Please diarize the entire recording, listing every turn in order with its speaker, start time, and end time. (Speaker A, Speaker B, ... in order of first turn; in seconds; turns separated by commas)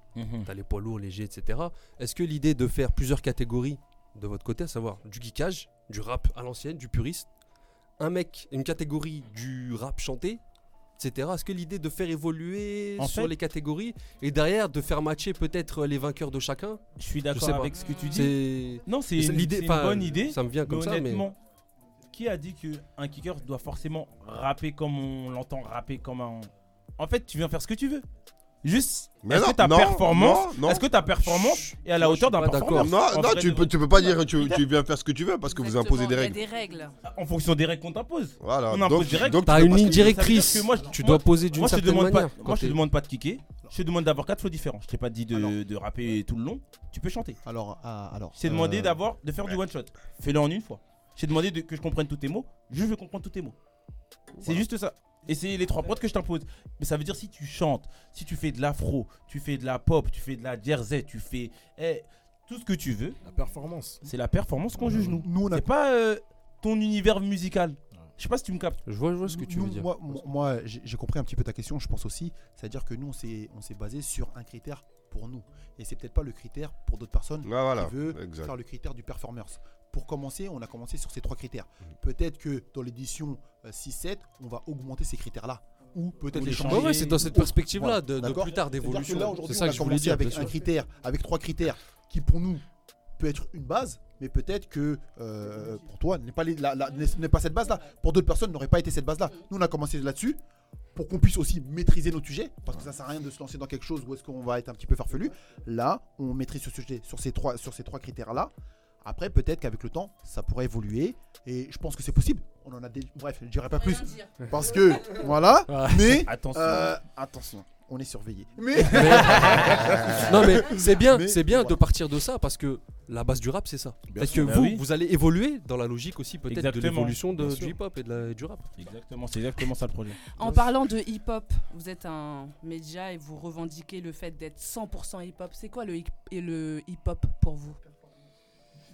Speaker A: 0.2-0.5, Speaker B: 0.5-7.3, Speaker B: 8.0-10.4, Speaker B: 11.0-21.3, Speaker A: 13.0-13.3, Speaker A: 17.0-18.3, Speaker C: 17.7-18.4, Speaker A: 18.9-21.4, Speaker A: 22.1-28.1, Speaker A: 28.6-34.6, Speaker D: 29.2-30.9, Speaker B: 31.2-32.9, Speaker D: 32.7-36.4, Speaker C: 35.5-37.0, Speaker A: 37.0-47.4, Speaker D: 38.4-40.3, Speaker B: 39.4-42.8, Speaker E: 45.3-45.6, Speaker E: 47.4-49.0, Speaker A: 48.4-53.6, Speaker A: 54.4-63.2, Speaker F: 63.2-64.0, Speaker A: 64.0-68.8, Speaker F: 64.8-65.2, Speaker E: 64.9-65.7, Speaker B: 68.9-70.2, Speaker E: 69.3-92.6, Speaker D: 77.4-78.5, Speaker A: 86.3-87.3, Speaker B: 86.3-90.6, Speaker E: 93.2-100.4, Speaker C: 96.9-97.2, Speaker E: 101.0-108.5, Speaker E: 109.0-121.8, Speaker C: 113.7-114.5, Speaker B: 115.7-116.3, Speaker A: 116.2-117.0, Speaker A: 118.8-120.3, Speaker B: 118.8-128.7, Speaker F: 124.1-124.6, Speaker A: 124.3-124.8, Speaker A: 126.5-127.2, Speaker F: 127.4-127.7, Speaker A: 128.8-130.2, Speaker C: 130.3-137.8